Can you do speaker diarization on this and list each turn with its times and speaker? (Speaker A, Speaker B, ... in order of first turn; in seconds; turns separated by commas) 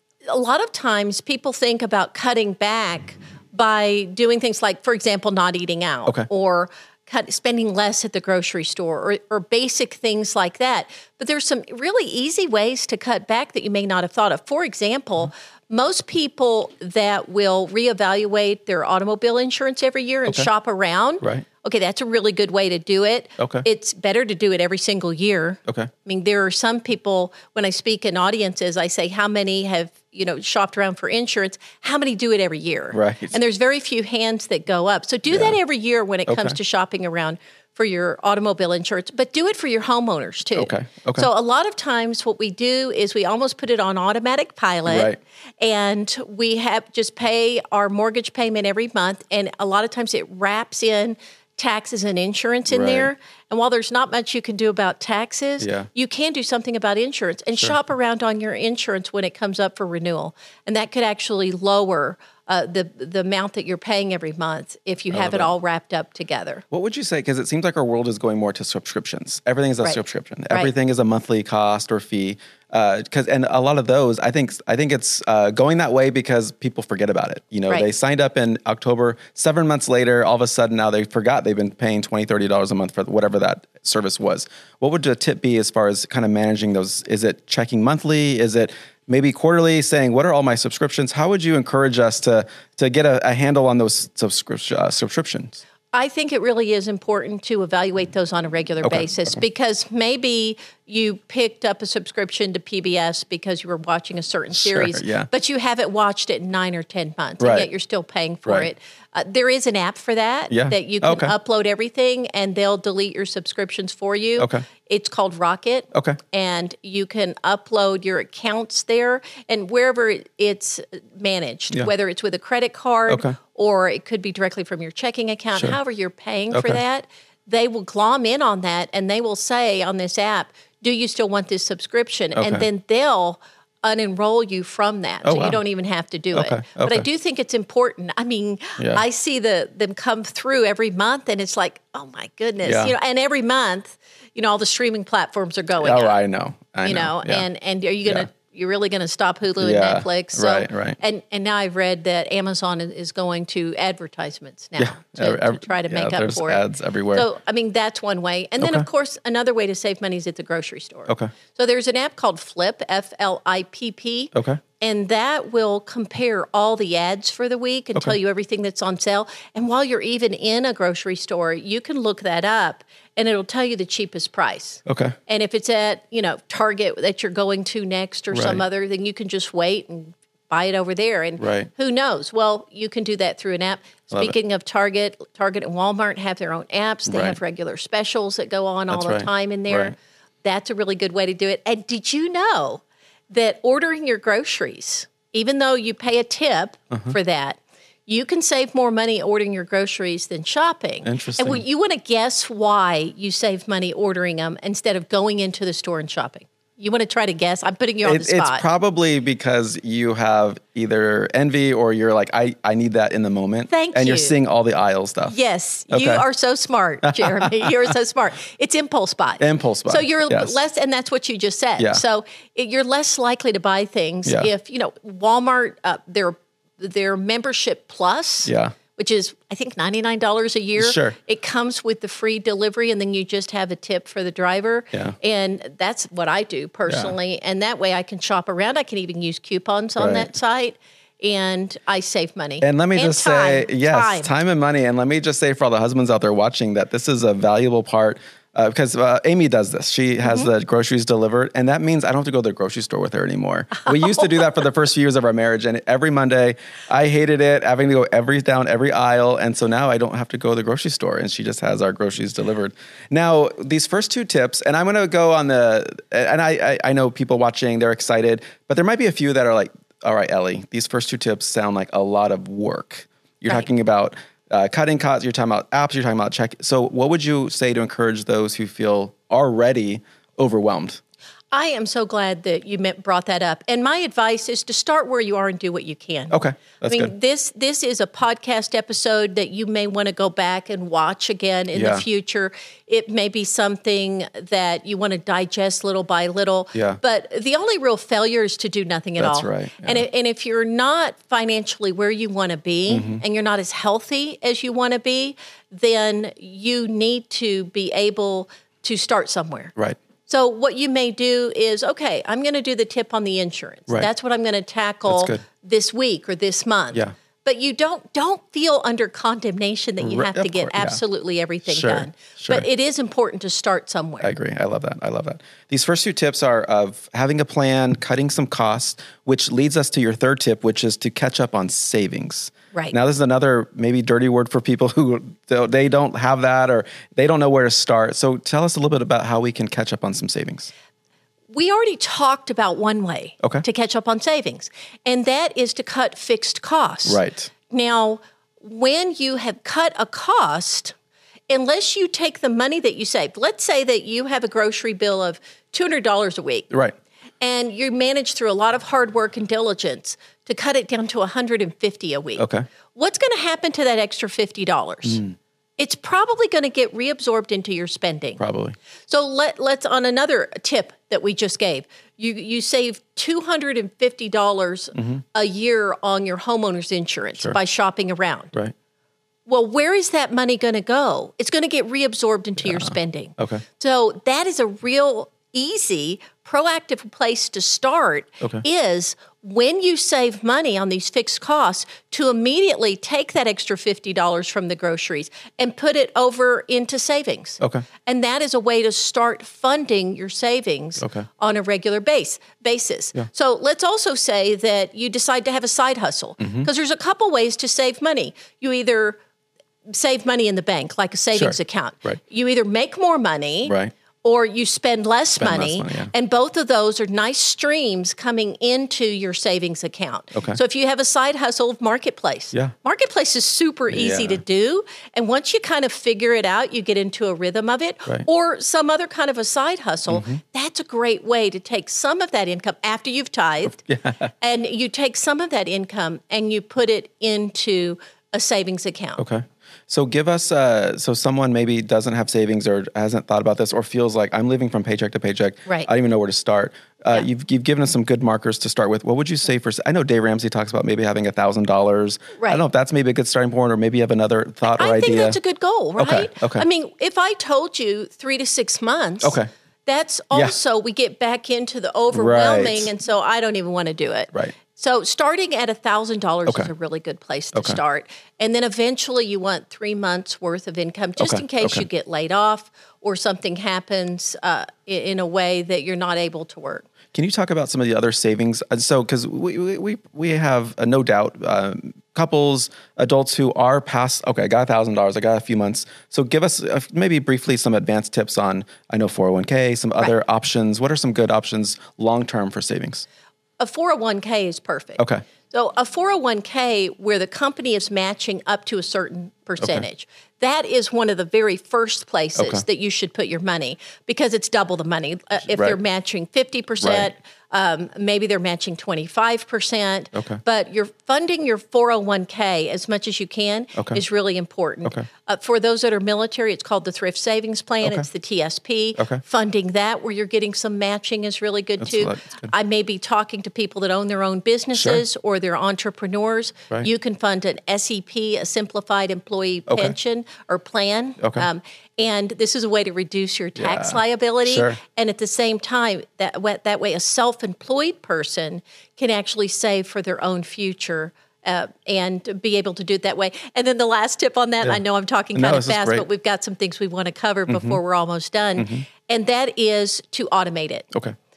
Speaker A: 0.3-66.6, Speaker B: 23.4-23.6, Speaker B: 32.9-33.4, Speaker B: 35.3-35.5, Speaker B: 36.3-36.6, Speaker B: 40.5-41.3, Speaker B: 44.9-45.2, Speaker B: 52.7-53.1, Speaker B: 55.6-55.9, Speaker B: 65.1-65.5, Speaker B: 66.7-95.6, Speaker A: 69.8-70.7, Speaker A: 95.9-146.2, Speaker B: 98.8-99.4, Speaker B: 104.5-105.3, Speaker B: 107.4-107.7, Speaker B: 110.5-111.3, Speaker B: 114.4-114.6, Speaker B: 115.9-116.2, Speaker B: 123.1-123.3, Speaker B: 126.5-126.8, Speaker B: 132.3-132.7, Speaker B: 135.2-135.6, Speaker B: 136.3-137.1, Speaker B: 138.8-139.0, Speaker B: 142.6-142.9, Speaker B: 145.8-147.4, Speaker A: 146.8-208.6, Speaker B: 149.6-151.0, Speaker B: 154.8-157.3, Speaker B: 158.6-158.8, Speaker B: 164.3-164.6, Speaker B: 174.8-175.1, Speaker B: 178.3-178.6, Speaker B: 181.4-181.7, Speaker B: 187.1-187.4, Speaker B: 188.9-189.9, Speaker B: 201.0-201.6, Speaker B: 208.0-215.3, Speaker A: 213.7-214.3, Speaker A: 215.3-244.3, Speaker B: 215.9-216.2, Speaker B: 217.0-217.9, Speaker B: 219.4-220.6, Speaker B: 228.4-228.7, Speaker B: 230.8-231.2, Speaker B: 236.9-237.1, Speaker B: 240.0-240.3, Speaker B: 242.6-281.0, Speaker A: 253.8-254.2, Speaker A: 281.5-309.7, Speaker B: 286.3-287.1, Speaker B: 291.7-292.0, Speaker B: 296.7-297.0, Speaker B: 299.2-300.0, Speaker B: 302.9-303.2, Speaker A: 310.3-324.3, Speaker B: 315.1-315.4, Speaker B: 320.0-321.0, Speaker B: 321.6-322.6, Speaker B: 324.2-340.7, Speaker A: 341.5-350.9, Speaker B: 347.1-347.5, Speaker A: 351.5-356.7, Speaker A: 357.4-365.2, Speaker B: 362.4-362.6, Speaker B: 365.1-365.3, Speaker A: 365.8-368.4, Speaker B: 368.4-368.8, Speaker A: 369.1-378.5, Speaker B: 374.9-375.2, Speaker A: 379.5-409.2, Speaker B: 382.6-383.6, Speaker B: 397.6-397.8, Speaker B: 401.0-401.3, Speaker B: 406.4-406.7, Speaker A: 409.9-433.8, Speaker B: 411.3-412.2, Speaker B: 413.6-413.9, Speaker B: 415.4-416.1, Speaker B: 420.3-420.6, Speaker B: 423.9-424.4, Speaker B: 430.1-430.4, Speaker B: 433.8-434.3, Speaker A: 434.4-439.2, Speaker B: 439.2-455.4, Speaker A: 452.4-452.6, Speaker A: 454.7-476.9, Speaker B: 456.0-456.6, Speaker B: 459.2-459.5, Speaker B: 462.1-462.9, Speaker B: 471.2-471.8, Speaker B: 477.1-493.0, Speaker A: 493.6-550.9, Speaker B: 495.0-495.2, Speaker B: 502.4-502.6, Speaker B: 505.5-505.8, Speaker B: 506.8-507.1, Speaker B: 510.1-510.4, Speaker B: 513.8-514.0, Speaker B: 521.8-522.5, Speaker B: 524.7-525.0, Speaker B: 529.7-529.9, Speaker B: 531.2-531.5, Speaker B: 533.6-534.8, Speaker B: 545.3-546.0, Speaker B: 547.5-547.8, Speaker B: 548.6-548.8